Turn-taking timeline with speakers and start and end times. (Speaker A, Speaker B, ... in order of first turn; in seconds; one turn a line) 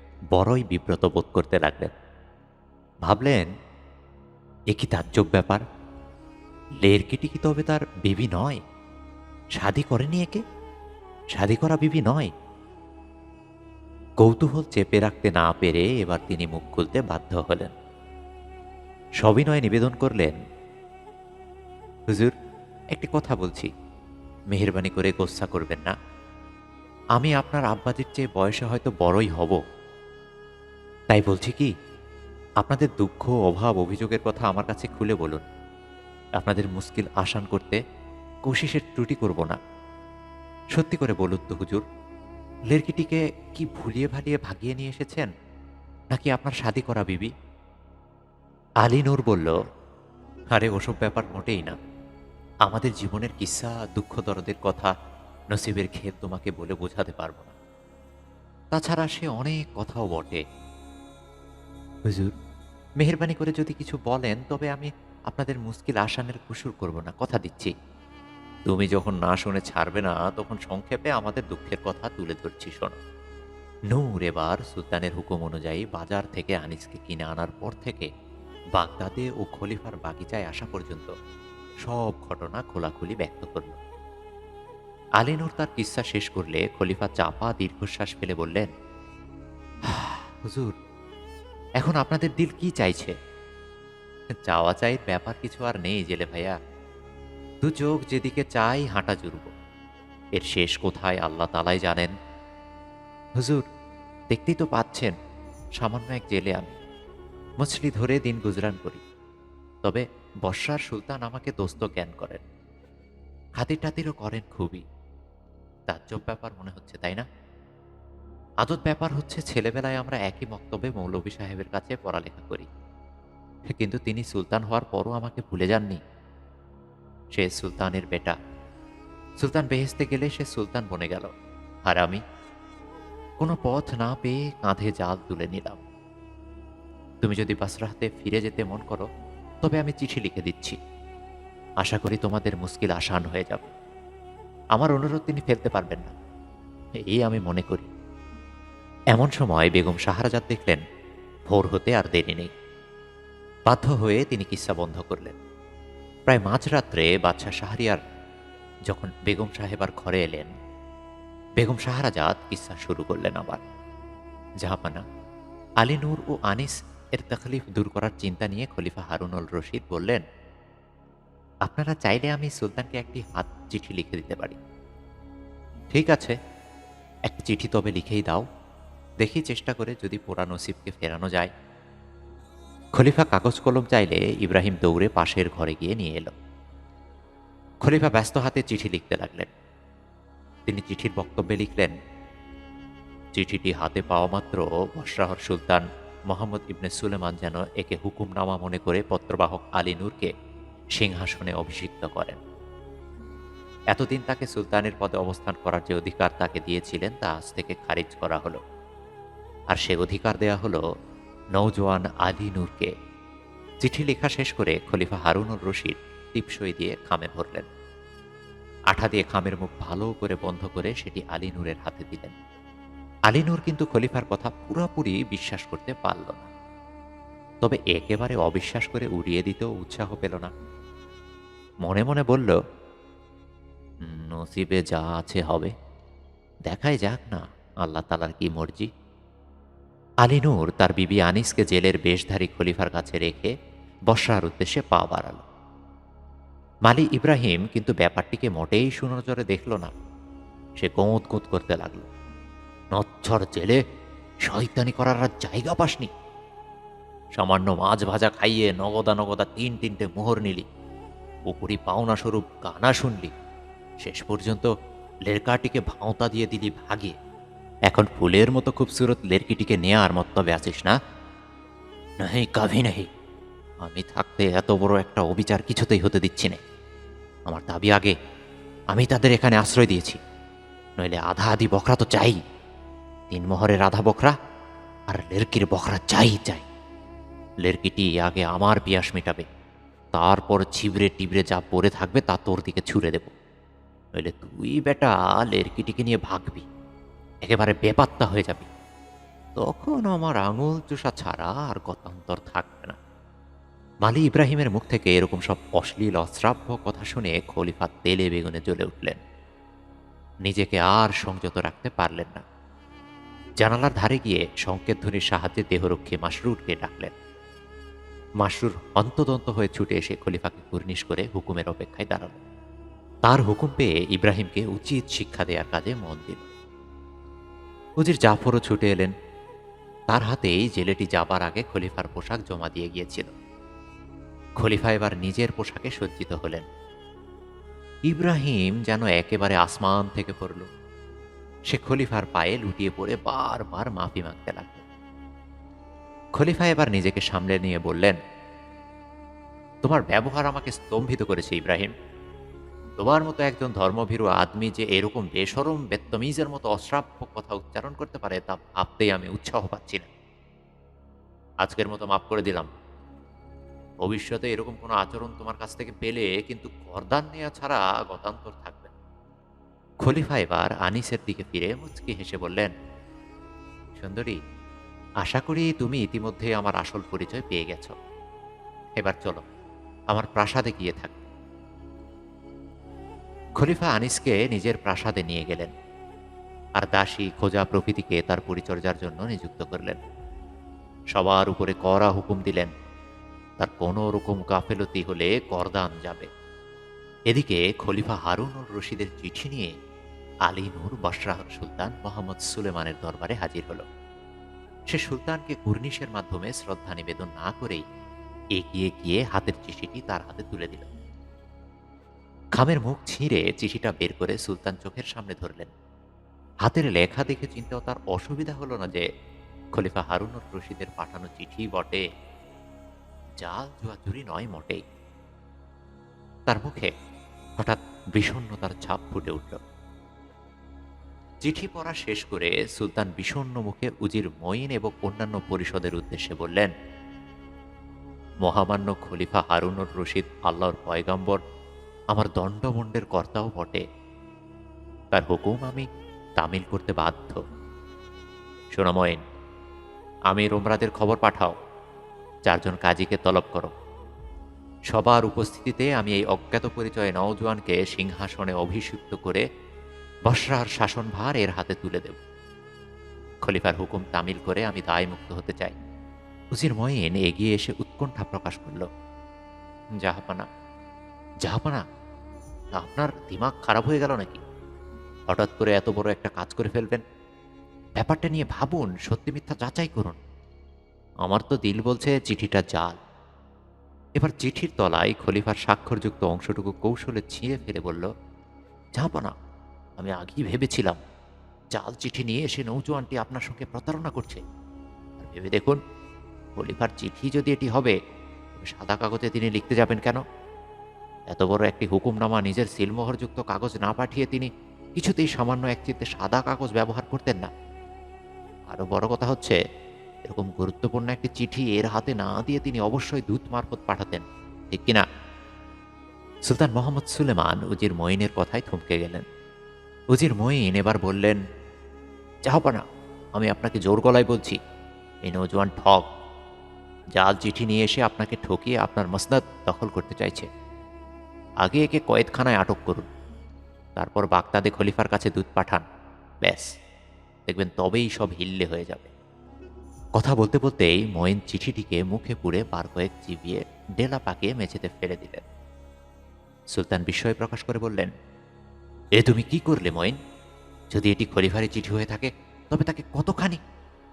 Speaker A: 0.3-1.9
Speaker A: 3.0-3.5
Speaker A: 4.7-5.6
Speaker A: 6.8-8.6
Speaker A: 9.6-10.4
Speaker A: 11.3-12.3
Speaker A: 14.2-17.7
Speaker A: 19.2-20.4
Speaker A: 22.1-22.3
Speaker A: 22.9-23.7
Speaker A: 24.5-25.9
Speaker A: 27.1-29.6
Speaker A: 31.1-31.7
Speaker A: 32.6-35.4
Speaker A: 36.4-37.8
Speaker A: 38.5-39.6
Speaker A: 40.8-41.8
Speaker A: 42.7-45.3
Speaker A: 46.1-47.3
Speaker A: 48.8-49.6
Speaker A: 50.5-51.8
Speaker A: 52.6-54.9
Speaker A: 55.5-57.5
Speaker A: 58.7-60.4
Speaker A: 62.0-62.3
Speaker A: 63.0-67.7
Speaker A: 68.7-72.9
Speaker A: 73.9-78.1
Speaker A: 78.8-81.1
Speaker A: 81.8-83.8
Speaker A: 85.2-88.7
Speaker A: 89.9-90.8
Speaker A: 91.8-93.1
Speaker A: 94.3-96.5
Speaker A: 97.6-99.5
Speaker A: 100.3-102.1
Speaker A: 103.4-103.6
Speaker A: 104.3-105.1
Speaker A: 105.8-106.8
Speaker A: 107.6-109.0
Speaker A: 109.8-112.4
Speaker A: 113.6-114.8
Speaker A: 115.9-117.2
Speaker A: 118.6-122.7
Speaker A: 123.7-126.0
Speaker A: 127.3-128.3
Speaker A: 129.4-131.3
Speaker A: 131.9-132.2
Speaker A: 133.4-135.8
Speaker A: 137.2-139.1
Speaker A: 139.6-140.8
Speaker A: 141.8-143.7
Speaker A: 144.7-146.1
Speaker A: 147.0-147.9
Speaker A: 149.1-150.8
Speaker A: 151.5-152.5
Speaker A: 153.7-155.4
Speaker A: 156.3-158.0
Speaker A: 158.9-160.5
Speaker A: 161.6-163.6
Speaker A: 164.6-165.0
Speaker A: 165.8-170.2
Speaker A: 171.7-174.6
Speaker A: 175.9-176.3
Speaker A: 177.3-178.4
Speaker A: 179.2-181.5
Speaker A: 182.9-186.3
Speaker A: 187.8-189.5
Speaker A: 190.7-191.9
Speaker A: 193.3-200.3
Speaker A: 201.0-202.4
Speaker A: 203.9-208.6
Speaker A: 209.7-210.8
Speaker A: 211.6-212.9
Speaker A: 213.8-217.7
Speaker A: 218.9-222.3
Speaker A: 223.3-226.5
Speaker A: 227.6-230.5
Speaker A: 231.8-232.6
Speaker A: 234.0-235.7
Speaker A: 236.7-238.9
Speaker A: 240.2-243.5
Speaker A: 244.1-245.4
Speaker A: 246.9-249.9
Speaker A: 250.8-252.1
Speaker A: 252.9-253.8
Speaker A: 254.4-256.1
Speaker A: 257.4-260.6
Speaker A: 261.5-263.3
Speaker A: 264.0-264.7
Speaker A: 265.3-267.1
Speaker A: 267.9-270.9
Speaker A: 272.2-273.1
Speaker A: 273.8-276.6
Speaker A: 277.5-278.1
Speaker A: 278.9-280.2
Speaker A: 281.0-282.4
Speaker A: 283.3-284.4
Speaker A: 285.1-286.6
Speaker A: 287.6-289.5
Speaker A: 290.1-293.3
Speaker A: 294.1-296.7
Speaker A: 297.4-298.7
Speaker A: 299.6-302.9
Speaker A: 304.0-309.2
Speaker A: 310.4-312.4
Speaker A: 313.6-317.1
Speaker A: 318.4-322.4
Speaker A: 323.2-326.5
Speaker A: 328.0-329.1
Speaker A: 330.1-333.3
Speaker A: 334.6-336.6
Speaker A: 338.0-340.7
Speaker A: 341.7-344.8
Speaker A: 346.4-348.2
Speaker A: 349.8-351.9
Speaker A: 353.0-360.1
Speaker A: 361.6-362.7
Speaker A: 364.0-368.9
Speaker A: 370.0-372.7
Speaker A: 373.9-374.4
Speaker A: 375.2-377.9
Speaker A: 379.0-379.4
Speaker A: 380.1-381.3
Speaker A: 383.6-385.7
Speaker A: 386.8-390.0
Speaker A: 391.1-392.7
Speaker A: 393.6-396.3
Speaker A: 397.3-399.7
Speaker A: 400.5-403.8
Speaker A: 404.9-407.8
Speaker A: 408.6-410.9
Speaker A: 412.6-415.7
Speaker A: 416.6-419.1
Speaker A: 419.8-422.1
Speaker A: 423.4-424.8
Speaker A: 426.5-426.9
Speaker A: 427.6-429.6
Speaker A: 431.4-436.7
Speaker A: 438.4-441.4
Speaker A: 442.1-443.8
Speaker A: 445.1-445.9
Speaker A: 446.4-447.4
Speaker A: 448.7-449.2
Speaker A: 450.3-451.5
Speaker A: 452.5-453.7
Speaker A: 454.9-459.4
Speaker A: 460.3-462.2
Speaker A: 463.4-465.7
Speaker A: 466.5-468.9
Speaker A: 470.0-470.4
Speaker A: 471.4-471.8
Speaker A: 472.8-474.4
Speaker A: 475.3-477.0
Speaker A: 478.0-480.2
Speaker A: 481.2-483.0
Speaker A: 484.1-488.1
Speaker A: 489.0-489.3
Speaker A: 490.0-491.0
Speaker A: 491.7-494.4
Speaker A: 495.2-495.8
Speaker A: 496.6-497.9
Speaker A: 498.6-500.2
Speaker A: 501.3-507.5
Speaker A: 508.7-509.6
Speaker A: 510.3-515.0
Speaker A: 516.5-519.2
Speaker A: 520.1-521.4
Speaker A: 522.5-522.8
Speaker A: 523.4-524.6
Speaker A: 525.2-526.0
Speaker A: 527.1-530.5
Speaker A: 531.6-533.1
Speaker A: 534.0-535.8
Speaker A: 536.4-536.7
Speaker A: 537.5-539.1
Speaker A: 540.1-545.4
Speaker A: 546.7-548.1
Speaker A: 549.2-550.1
Speaker A: 550.9-553.6